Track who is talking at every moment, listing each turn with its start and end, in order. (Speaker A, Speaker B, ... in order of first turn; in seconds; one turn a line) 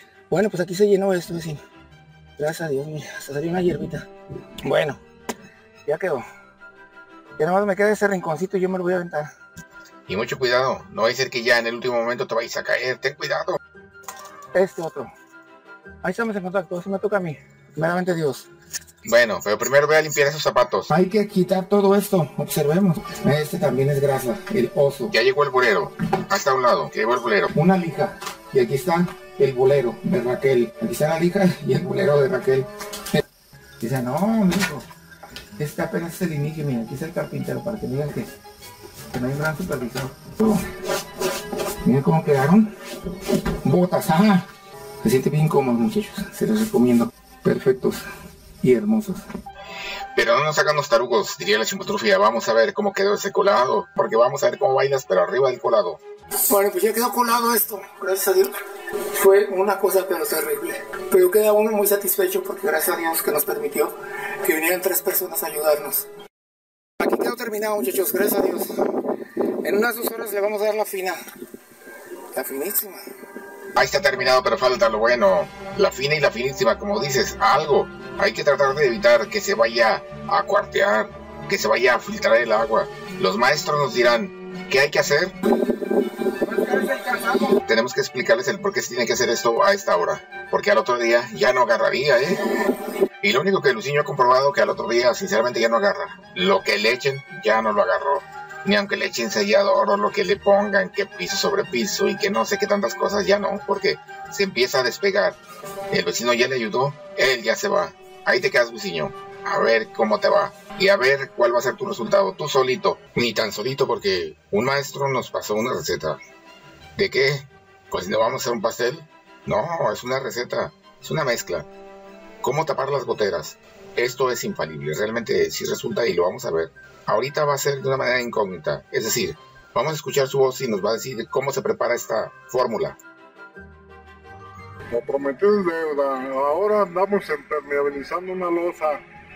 Speaker A: 0.3-1.6
Speaker A: 2.4-4.1
Speaker A: 4.6-5.0
Speaker A: 5.9-6.3
Speaker A: 7.4-9.3
Speaker B: 10.1-13.6
Speaker A: 14.5-15.1
Speaker A: 16.0-18.5
Speaker B: 19.1-20.9
Speaker A: 20.9-25.1
Speaker B: 25.1-27.5
Speaker A: 27.6-33.2
Speaker A: 33.8-34.9
Speaker A: 35.6-38.3
Speaker A: 39.1-40.9
Speaker A: 41.8-42.7
Speaker A: 43.3-44.5
Speaker A: 45.0-48.0
Speaker A: 48.6-49.2
Speaker B: 50.1-56.0
Speaker A: 56.5-58.5
Speaker A: 59.1-66.1
Speaker A: 67.0-69.1
Speaker A: 69.6-71.2
Speaker A: 72.3-73.0
Speaker B: 73.8-85.3
Speaker A: 86.5-87.3
Speaker B: 87.5-92.5
Speaker B: 93.2-105.4
Speaker B: 105.9-116.2
Speaker B: 117.0-121.7
Speaker B: 122.4-133.0
Speaker C: 134.9-139.0